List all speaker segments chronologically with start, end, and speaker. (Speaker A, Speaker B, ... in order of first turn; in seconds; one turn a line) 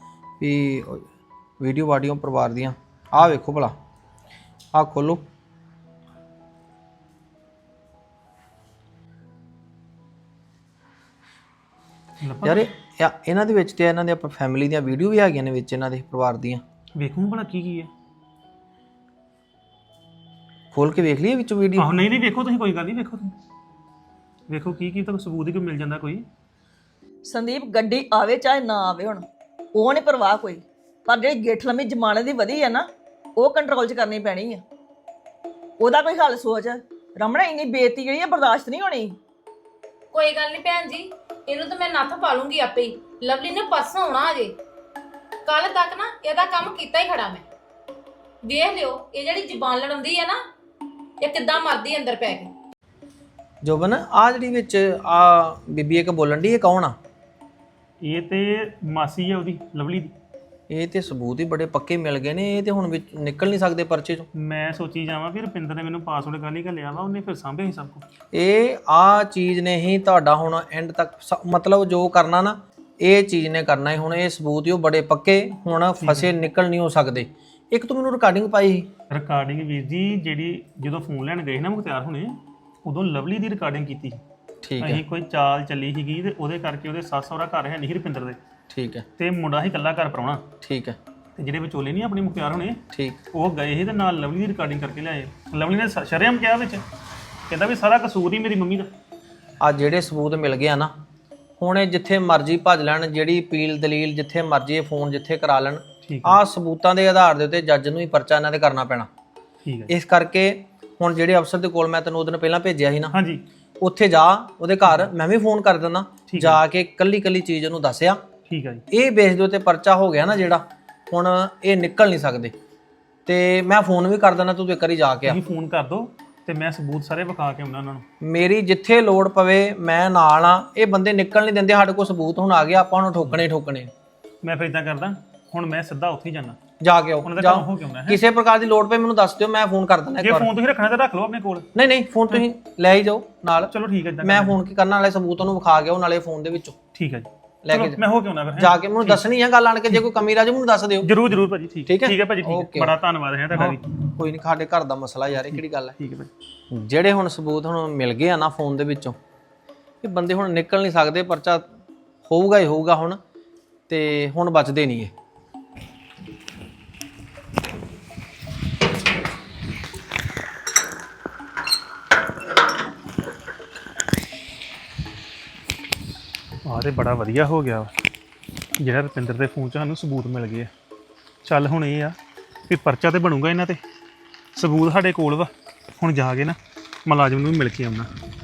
Speaker A: 0.4-1.1
Speaker A: 1.6-3.8
Speaker A: 4.7-5.3
Speaker B: 12.2-12.7
Speaker A: 12.4-16.6
Speaker B: 17.0-17.9
Speaker A: 20.7-21.9
Speaker B: 21.8-23.3
Speaker B: 24.5-26.3
Speaker C: 27.3-34.6
Speaker C: 35.8-39.2
Speaker D: 40.4-44.5
Speaker D: 45.5-47.4
Speaker D: 48.5-50.4
Speaker D: 51.2-52.4
Speaker A: 53.6-57.0
Speaker B: 58.0-60.1
Speaker A: 60.7-64.2
Speaker B: 64.4-68.0
Speaker A: 68.3-78.9
Speaker B: 76.0-76.3
Speaker B: 79.1-84.2
Speaker A: 84.6-85.0
Speaker B: 84.8-88.4
Speaker A: 88.7-89.0
Speaker B: 89.2-90.5
Speaker A: 90.6-91.0
Speaker B: 91.4-92.8
Speaker A: 92.9-93.2
Speaker B: 93.3-96.8
Speaker B: 97.5-98.9
Speaker A: 99.6-100.9
Speaker A: 101.6-109.1
Speaker B: 106.0-106.4
Speaker B: 109.7-109.9
Speaker A: 109.9-113.1
Speaker B: 113.1-113.4
Speaker A: 113.8-118.2
Speaker B: 114.9-115.1
Speaker B: 116.3-116.6
Speaker B: 118.5-118.8
Speaker A: 118.9-122.5
Speaker A: 123.3-125.4
Speaker B: 125.3-128.1
Speaker A: 128.2-133.9
Speaker B: 134.4-136.6
Speaker A: 136.8-140.5
Speaker B: 137.2-138.2
Speaker B: 140.2-141.7
Speaker A: 141.8-143.7
Speaker B: 143.7-144.6
Speaker A: 144.2-146.8
Speaker B: 146.9-149.3
Speaker A: 147.7-148.0
Speaker A: 148.6-151.1
Speaker B: 151.0-153.8
Speaker A: 151.9-152.9
Speaker A: 153.6-155.9
Speaker B: 155.4-156.3
Speaker A: 156.7-159.2
Speaker A: 160.0-161.7
Speaker A: 162.3-163.2
Speaker A: 163.9-165.1
Speaker B: 176.7-177.9
Speaker B: 178.8-180.7
Speaker B: 181.4-182.2
Speaker B: 182.7-183.8
Speaker B: 184.6-188.1